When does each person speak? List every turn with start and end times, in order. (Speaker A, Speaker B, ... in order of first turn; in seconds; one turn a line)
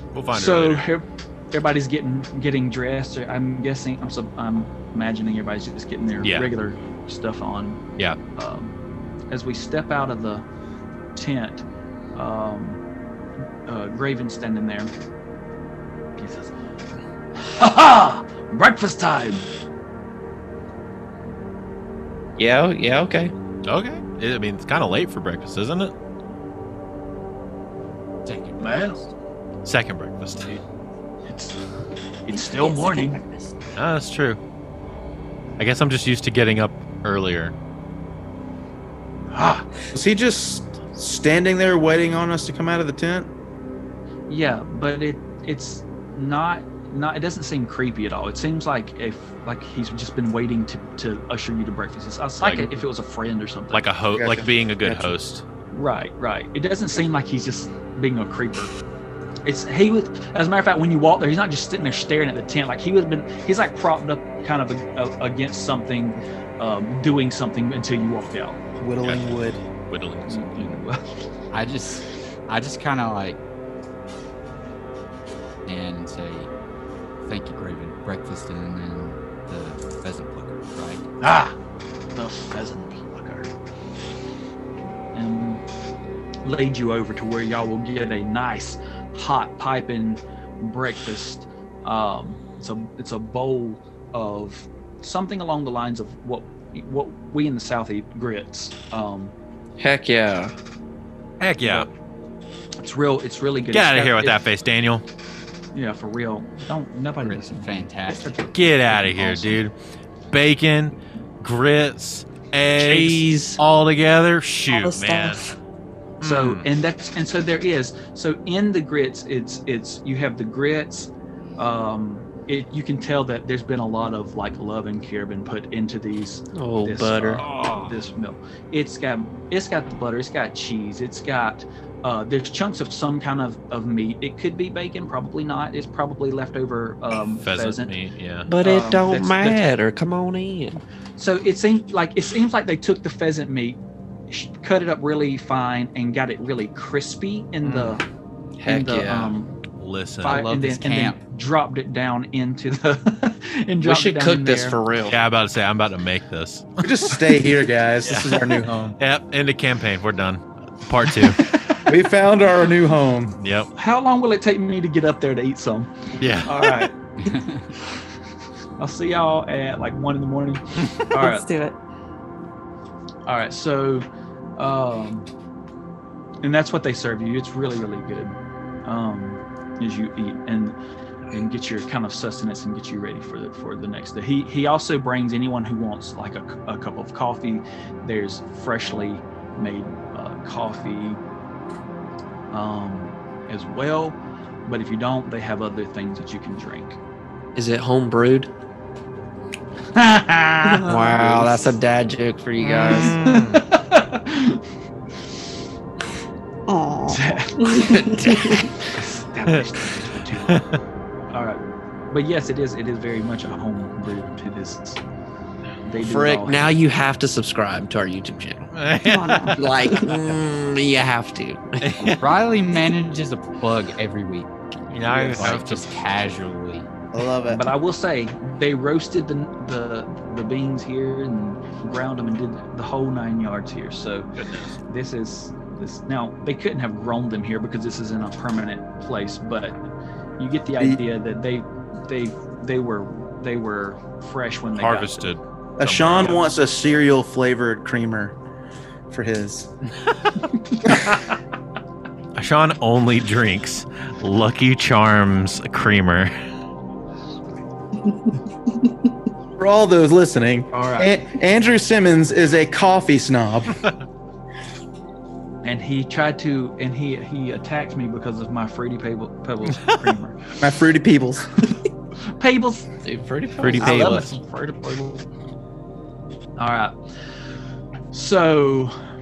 Speaker A: 0.1-0.9
Speaker B: 0.3-7.8
Speaker A: 6.2-6.5
Speaker B: 8.3-8.8
Speaker B: 9.3-10.4
Speaker B: 11.2-12.8
Speaker B: 13.7-14.9
Speaker B: 16.2-16.5
Speaker B: 17.4-19.5
Speaker C: 22.4-23.3
Speaker A: 23.6-25.9
Speaker D: 28.2-29.1
Speaker B: 28.6-29.0
Speaker A: 29.6-30.6
Speaker B: 31.3-31.6
Speaker B: 32.2-33.2
Speaker E: 32.3-33.5
Speaker A: 33.8-34.4
Speaker A: 35.6-37.5
Speaker B: 39.3-39.7
Speaker F: 39.9-43.3
Speaker B: 44.3-53.9
Speaker A: 52.4-52.8
Speaker A: 53.7-55.4
Speaker F: 54.1-54.5
Speaker B: 54.8-55.1
Speaker B: 55.7-58.7
Speaker B: 59.4-68.6
Speaker F: 68.8-69.6
Speaker A: 69.0-70.8
Speaker B: 70.2-71.0
Speaker D: 71.5-73.4
Speaker D: 75.7-76.5
Speaker D: 77.2-81.1
Speaker B: 81.2-81.5
Speaker B: 82.1-83.5
Speaker B: 85.1-85.6
Speaker B: 86.4-99.3
Speaker C: 99.8-100.5
Speaker A: 101.4-101.9
Speaker B: 101.6-101.9
Speaker B: 102.8-104.4
Speaker A: 103.7-105.0
Speaker B: 105.7-109.6
Speaker D: 107.2-108.5
Speaker A: 108.5-109.7
Speaker A: 110.3-115.4
Speaker B: 112.8-113.6
Speaker E: 114.7-115.5
Speaker A: 116.2-116.6
Speaker B: 116.2-137.9
Speaker C: 126.5-127.5
Speaker A: 137.3-138.5
Speaker C: 138.5-140.8
Speaker B: 138.6-139.7
Speaker B: 141.2-148.0
Speaker A: 147.6-147.9
Speaker C: 148.6-149.3
Speaker B: 148.6-149.6
Speaker A: 149.8-150.5
Speaker B: 150.2-154.8
Speaker D: 150.2-151.2
Speaker C: 153.8-155.2
Speaker A: 155.1-157.2
Speaker F: 156.8-159.0
Speaker A: 158.0-161.5
Speaker B: 161.1-161.8
Speaker F: 161.8-163.4
Speaker A: 163.4-163.7
Speaker B: 163.8-165.9
Speaker A: 166.2-166.9
Speaker B: 166.4-166.9
Speaker D: 167.2-167.7
Speaker B: 168.8-171.5
Speaker E: 171.2-171.8
Speaker B: 173.2-174.1
Speaker B: 174.6-175.3
Speaker B: 176.4-180.8
Speaker B: 181.3-191.2
Speaker B: 192.5-197.0
Speaker C: 197.5-198.5
Speaker B: 199.9-200.8
Speaker E: 200.6-201.6
Speaker C: 200.8-203.2
Speaker A: 202.6-203.6
Speaker B: 202.9-204.6
Speaker E: 206.7-208.7
Speaker B: 207.1-210.7
Speaker A: 210.4-210.8
Speaker B: 211.3-215.0
Speaker B: 215.8-216.8
Speaker C: 216.0-218.7
Speaker A: 218.7-219.6
Speaker E: 219.0-220.2
Speaker C: 219.6-222.0
Speaker A: 221.8-222.2
Speaker D: 222.0-226.9
Speaker A: 224.9-226.0
Speaker F: 227.1-227.7
Speaker B: 227.5-234.3
Speaker A: 234.4-234.8
Speaker B: 234.8-245.2
Speaker F: 240.8-241.0
Speaker A: 244.7-246.4
Speaker F: 245.8-248.4
Speaker F: 249.1-249.7
Speaker A: 252.3-256.3
Speaker F: 259.6-263.8
Speaker B: 260.7-261.1
Speaker B: 265.6-270.4
Speaker F: 270.6-271.5
Speaker B: 272.2-273.0
Speaker C: 273.0-274.4
Speaker B: 273.6-275.2
Speaker A: 273.6-274.3
Speaker B: 276.6-276.9
Speaker B: 278.1-278.9